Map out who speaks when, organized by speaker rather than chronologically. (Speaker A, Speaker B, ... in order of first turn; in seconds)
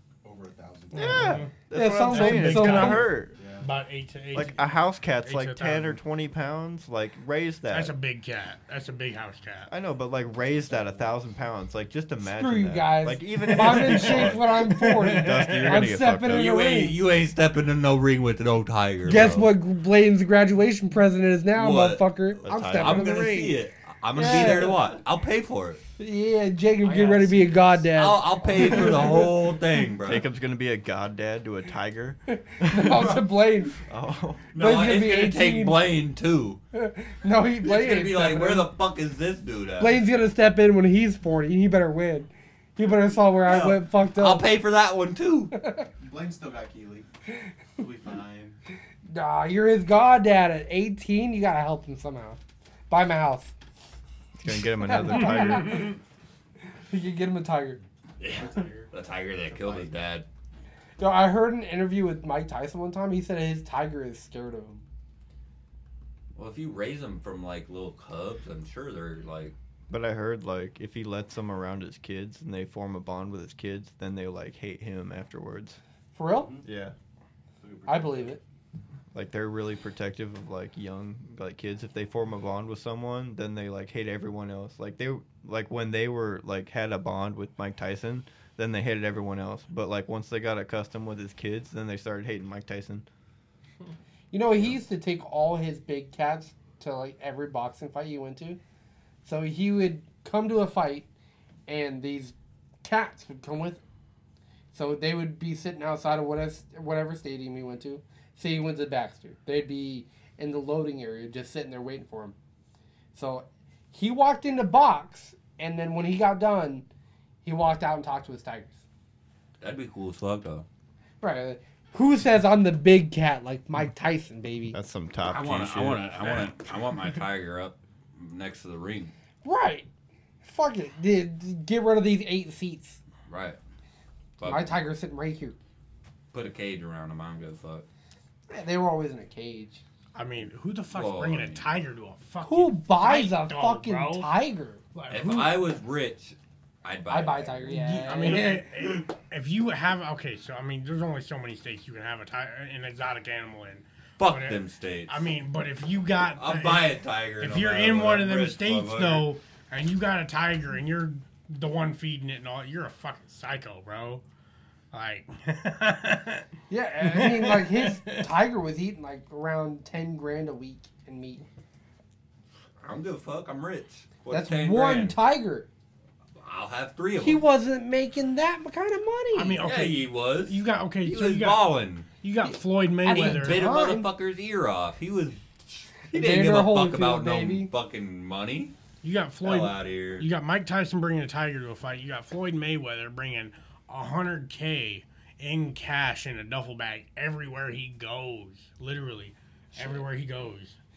Speaker A: 0.2-1.5, 3.3-3.7, 10.7-11.1, 46.0-47.1, 47.8-48.6, 58.2-59.9, 76.3-76.7, 77.6-78.4
Speaker B: 0.9-3.4, 4.3-8.0, 9.7-14.4, 15.0-16.5, 22.4-23.1, 30.0-33.2, 33.8-34.5, 54.4-56.0, 69.9-75.8, 76.6-76.9, 79.1-93.1, 124.7-126.5
Speaker C: 1.0-4.7, 5.2-6.0, 7.7-9.7, 13.4-15.9, 140.2-144.3, 144.9-145.6, 147.7-164.2, 164.9-166.4, 167.0-168.3, 179.3-183.7, 189.0-200.8
Speaker D: 1.7-3.1, 12.3-17.0, 19.0-23.6, 24.1-24.9, 26.0-29.3, 32.4-33.8, 34.5-35.8, 36.7-38.7, 39.8-44.5, 45.5-45.9, 49.1-52.4, 52.9-53.5, 54.8-56.0, 56.9-57.8, 61.0-64.8, 76.2-76.5, 77.9-78.4, 94.3-98.6, 99.2-101.1, 101.7-103.8, 104.7-112.3, 113.1-116.9, 117.4-118.8, 121.2-124.8, 129.4-129.9, 130.4-133.0, 134.4-135.6, 138.5-139.8, 142.4-144.8, 147.1-148.7, 166.7-171.5, 174.3-175.7, 177.2-179.6, 182.4-184.1, 186.1-187.7, 199.7-200.1
Speaker E: 16.3-19.5, 21.5-22.1, 22.6-25.8, 26.9-30.3, 34.5-36.6, 37.6-40.0, 43.5-45.5, 58.2-60.3, 66.3-69.5, 119.6-120.7, 125.2-129.1, 133.3-133.6, 134.4-134.8, 136.3-137.9, 140.9-141.7, 145.1-147.8, 154.2-155.3, 156.3-159.3, 172.8-175.2, 176.4-177.4, 179.6-182.1, 183.1-188.8, 189.4-190.2